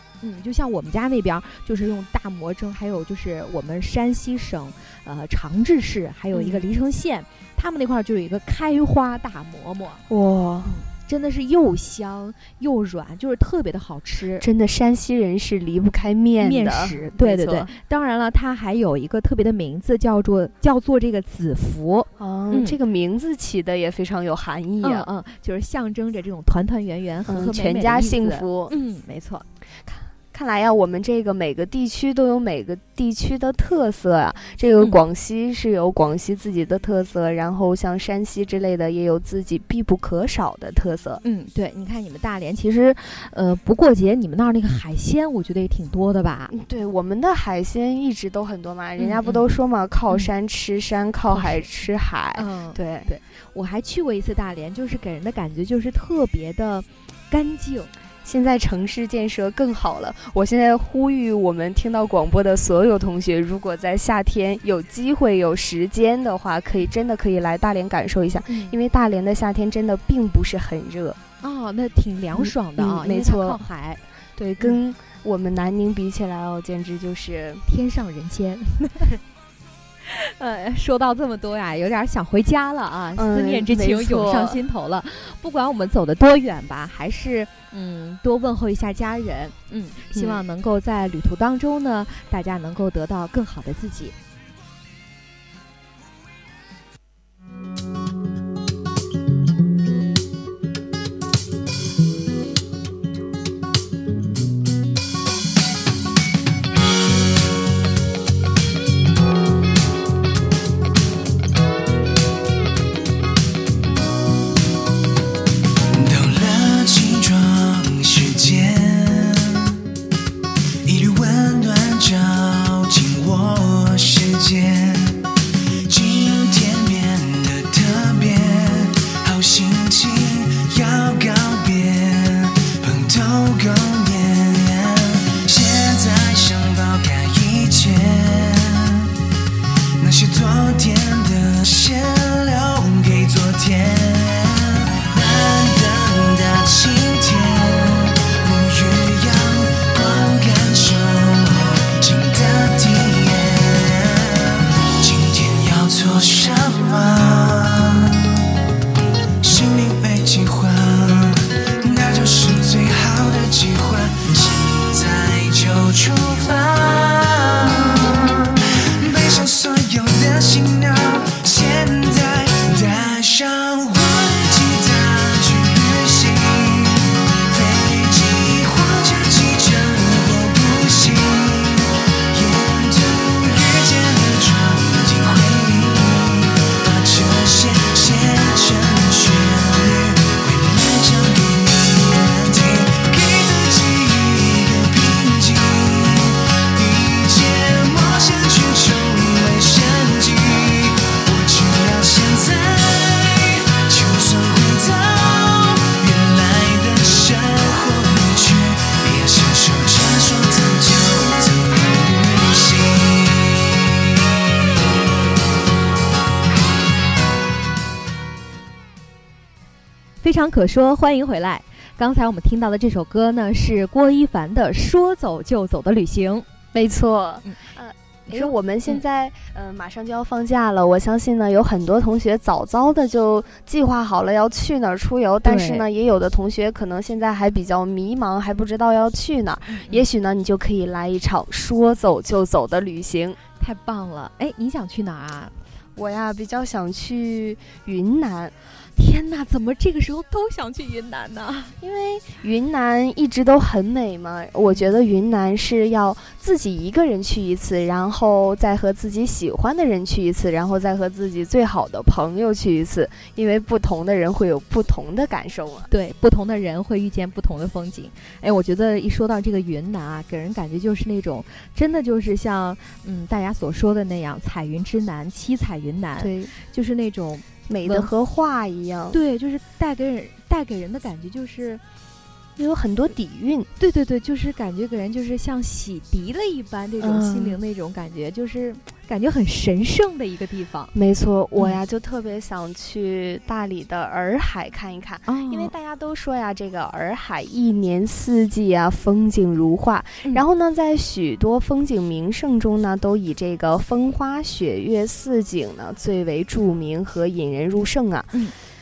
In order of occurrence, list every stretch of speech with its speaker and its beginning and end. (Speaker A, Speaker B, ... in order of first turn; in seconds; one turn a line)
Speaker A: 0.2-10.0
Speaker B: 6.3-6.7
Speaker B: 10.1-10.7
Speaker A: 10.7-14.5
Speaker B: 14.4-17.7
Speaker A: 16.4-22.8
Speaker B: 22.2-25.1
Speaker A: 24.8-29.4
Speaker B: 27.3-28.7
Speaker B: 29.9-41.2
Speaker A: 41.2-46.5
Speaker B: 46.5-53.1
Speaker A: 49.0-49.5
Speaker A: 51.3-51.7
Speaker A: 52.4-57.9
Speaker B: 58.2-71.2
Speaker A: 68.5-68.8
Speaker A: 71.4-74.0
Speaker B: 72.3-73.6
Speaker B: 74.4-77.7
Speaker A: 77.7-79.2
Speaker A: 80.0-94.2
Speaker B: 83.2-84.6
Speaker B: 90.1-90.4
Speaker C: 115.9-119.8
Speaker C: 120.8-125.2
Speaker C: 125.9-139.1
Speaker C: 140.0-158.4
Speaker C: 159.4-213.7
Speaker A: 220.2-226.5
Speaker B: 226.7-243.4
Speaker A: 228.3-229.0
Speaker A: 235.4-235.9
Speaker A: 239.7-240.1
Speaker A: 243.6-245.5
Speaker B: 246.0-248.5
Speaker A: 249.0-251.7
Speaker B: 251.8-265.9
Speaker A: 265.9-278.1
Speaker B: 276.2-276.5
Speaker B: 277.7-279.2
Speaker A: 279.1-281.8
Speaker B: 282.6-283.7
Speaker A: 283.8-290.9
Speaker B: 287.0-287.6
Speaker B: 290.9-308.4
Speaker A: 295.3-295.7